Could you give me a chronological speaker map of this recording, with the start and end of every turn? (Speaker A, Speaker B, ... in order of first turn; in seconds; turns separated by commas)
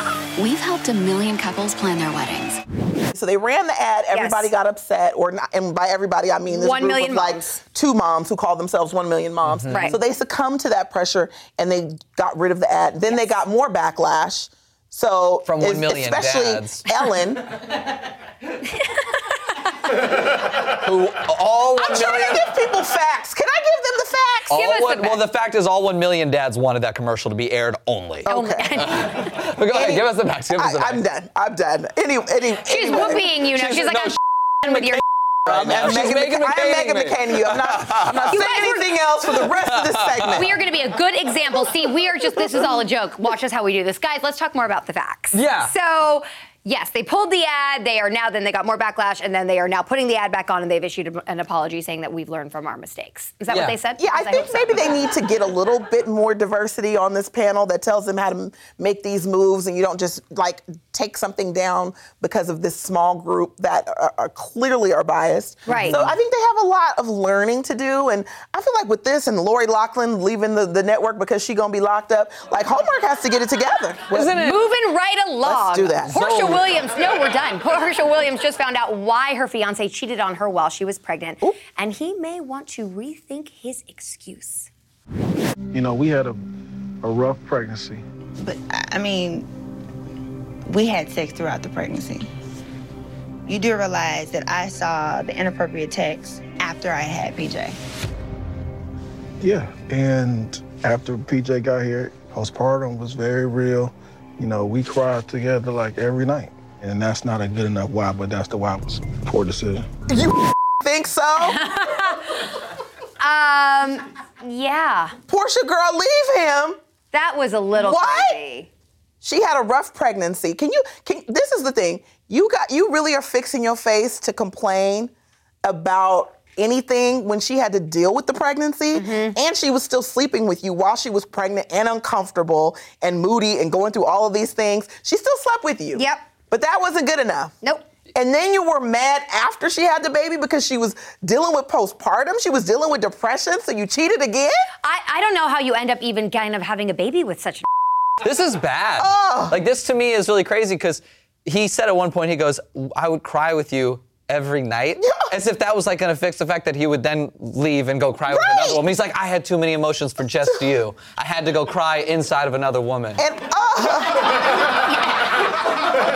Speaker A: 0.4-2.6, Speaker B: 3.1-17.5, Speaker C: 4.1-4.5, Speaker C: 6.5-7.6, Speaker D: 9.4-9.9, Speaker C: 9.7-10.0, Speaker D: 15.4-16.9, Speaker D: 20.7-22.5, Speaker B: 21.8-24.5, Speaker C: 24.5-25.2, Speaker D: 24.5-28.3, Speaker B: 28.2-29.0, Speaker C: 28.3-29.3, Speaker D: 29.0-31.0, Speaker B: 29.7-30.0, Speaker B: 30.6-33.4, Speaker C: 32.6-35.0, Speaker D: 33.4-38.3, Speaker B: 35.5-40.6, Speaker C: 38.3-38.9, Speaker D: 39.6-40.3, Speaker C: 40.3-54.7, Speaker D: 45.3-45.7, Speaker D: 53.5-53.8, Speaker B: 54.0-74.4, Speaker C: 65.7-66.0, Speaker D: 65.7-66.2, Speaker D: 74.1-74.6, Speaker C: 74.4-84.7, Speaker B: 75.4-76.1, Speaker D: 76.0-76.6, Speaker E: 85.7-86.4, Speaker E: 87.0-88.0, Speaker F: 88.4-89.5, Speaker F: 90.7-92.3, Speaker F: 93.5-97.8, Speaker E: 99.4-109.9, Speaker B: 110.1-111.6, Speaker C: 111.4-112.5, Speaker C: 113.2-115.1, Speaker B: 115.3-116.8, Speaker C: 117.1-118.7, Speaker B: 117.8-118.4, Speaker B: 119.2-125.1, Speaker B: 125.6-137.5, Speaker C: 128.9-129.4, Speaker C: 135.9-136.3, Speaker C: 137.6-137.9, Speaker B: 138.1-144.6, Speaker C: 144.8-147.7, Speaker D: 148.2-163.2, Speaker B: 149.0-149.6, Speaker B: 155.0-155.3, Speaker B: 158.3-158.8, Speaker B: 163.2-164.4